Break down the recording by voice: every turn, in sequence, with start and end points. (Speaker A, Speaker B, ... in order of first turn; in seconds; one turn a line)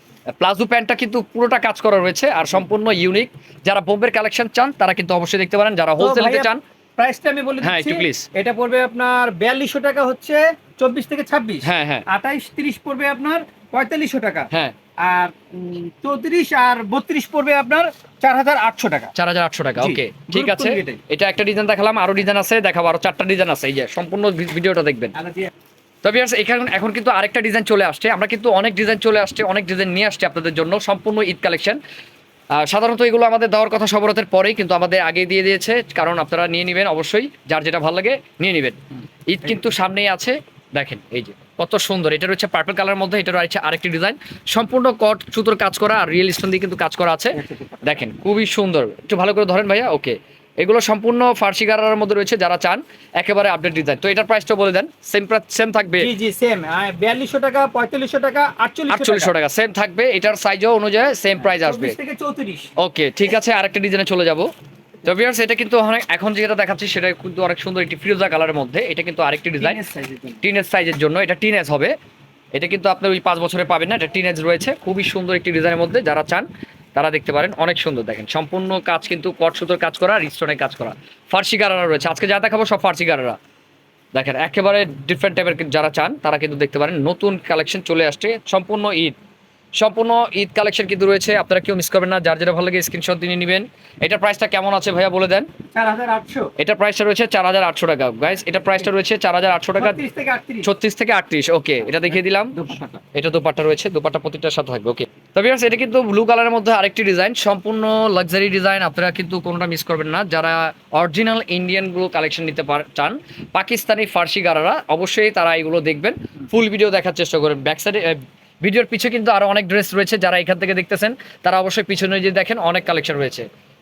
Speaker A: 0.3-6.6
Speaker B: 6.0-14.5
Speaker A: 7.6-8.3
Speaker A: 11.6-12.0
Speaker B: 15.0-19.1
Speaker A: 19.1-25.1
Speaker B: 19.8-21.0
Speaker B: 25.1-25.5
Speaker A: 26.0-31.8
Speaker A: 32.6-56.1
Speaker B: 47.3-48.1
Speaker B: 56.0-59.3
Speaker A: 58.9-61.9
Speaker B: 61.4-62.7
Speaker A: 62.8-64.5
Speaker A: 65.0-69.8
Speaker B: 69.6-70.4
Speaker A: 70.4-71.9
Speaker A: 72.5-83.4
Speaker A: 84.1-89.1
Speaker A: 89.8-95.5
Speaker B: 95.7-96.5
Speaker A: 96.6-100.0
Speaker B: 99.8-100.7
Speaker A: 100.6-102.5
Speaker B: 102.1-103.0
Speaker A: 103.1-123.5